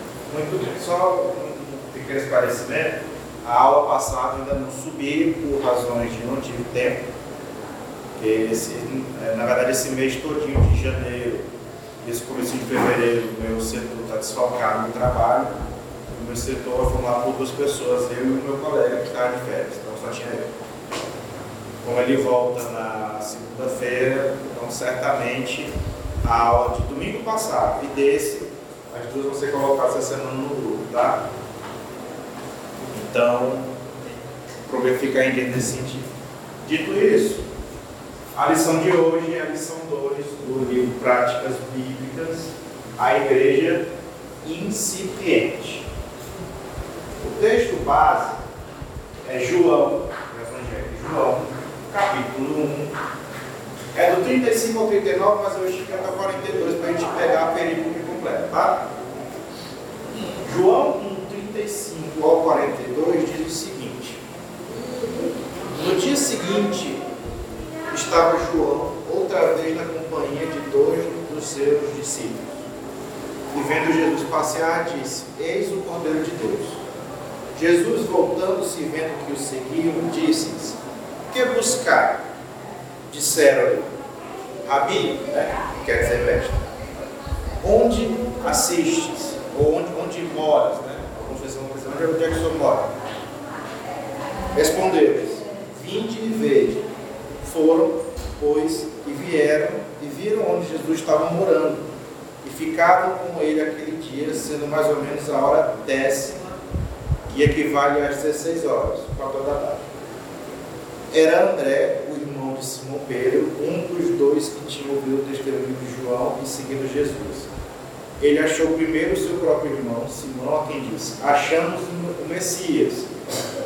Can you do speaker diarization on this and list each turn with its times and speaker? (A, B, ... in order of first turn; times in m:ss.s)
0:00.3-0:07.0 A
0:08.2-0:11.5 A
0:12.0-0:15.6 A
0:16.1-0:20.5 A
0:21.8-0:25.7 A
0:26.2-0:31.2 A
0:32.8-0:33.8 A
0:34.7-0:36.1 A
0:36.6-0:37.4 A
0:38.4-0:43.9 A
0:44.4-0:45.9 A
0:47.2-0:48.4 A
0:49.2-0:52.9 A
0:54.0-0:58.9 A
1:00.4-1:04.2 A
1:05.7-1:07.0 A
1:07.9-1:12.6 A
1:13.5-1:16.8 A
1:17.6-1:20.8 A
1:21.3-1:22.3 A
1:23.1-1:23.9 A
1:24.6-1:26.7 A
1:27.6-1:32.9 A
1:34.5-1:36.8 A
1:37.4-1:41.9 A
1:42.4-1:46.4 A
1:47.3-1:49.9 A
1:51.1-1:57.5 A
1:58.2-2:03.2 A